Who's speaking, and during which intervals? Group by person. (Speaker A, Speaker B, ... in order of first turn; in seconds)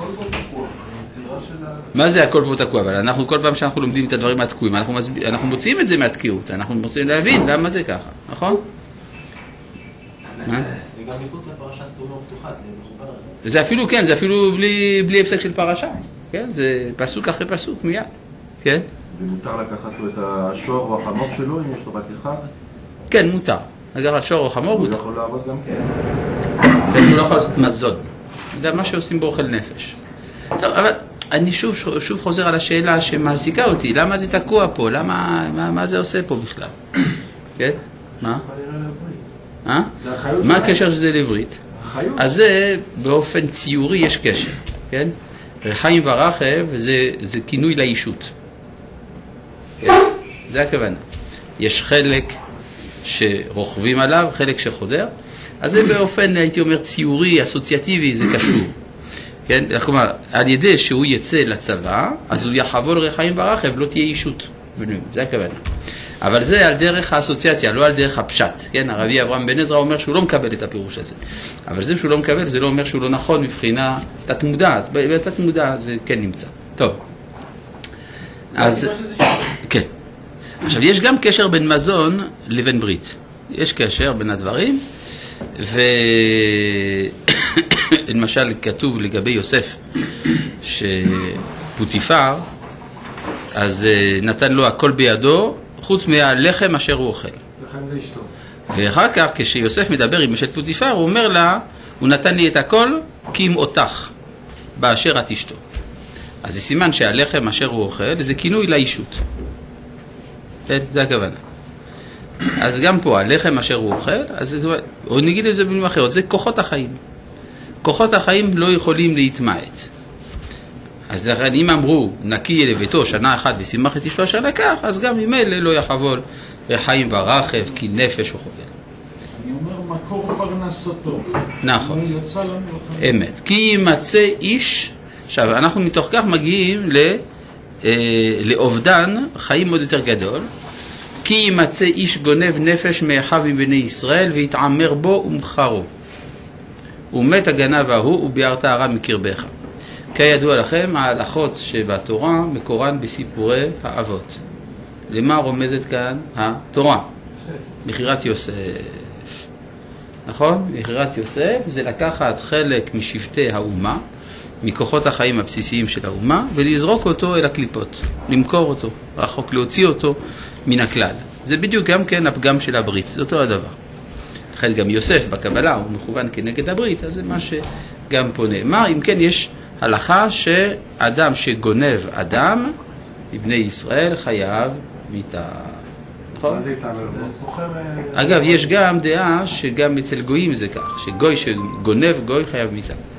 Speaker A: 0.2-1.9, 38.4-39.2, 78.6-79.2, 187.1-188.7
Speaker B: 1.9-8.6, 13.4-18.9, 23.1-25.0, 26.9-30.0, 30.6-36.7, 37.6-38.4, 39.7-41.6, 42.2-48.3, 49.8-51.0, 51.6-52.4, 53.0-58.8, 59.5-65.7, 66.2-77.0, 78.5-79.9, 80.6-84.8, 85.6-89.8, 90.6-92.5, 93.5-97.4, 98.7-104.1, 104.8-105.6, 106.4-109.2, 110.7-111.4, 112.6-117.0, 117.8-119.9, 121.1-128.7, 131.6-132.0, 133.0-137.2, 137.8-140.5, 141.2-145.9, 147.1-149.5, 150.1-154.4, 155.1-157.1, 157.8-159.2, 160.3-164.0, 164.6-173.8, 174.6-182.8, 183.3-185.8, 186.3-186.6, 188.1-193.0
Speaker C: 10.9-13.4
Speaker D: 19.1-22.5, 24.7-25.9
Speaker E: 40.0-40.9, 41.8-42.3, 97.6-98.3, 186.4-187.3
Speaker F: 129.3-133.2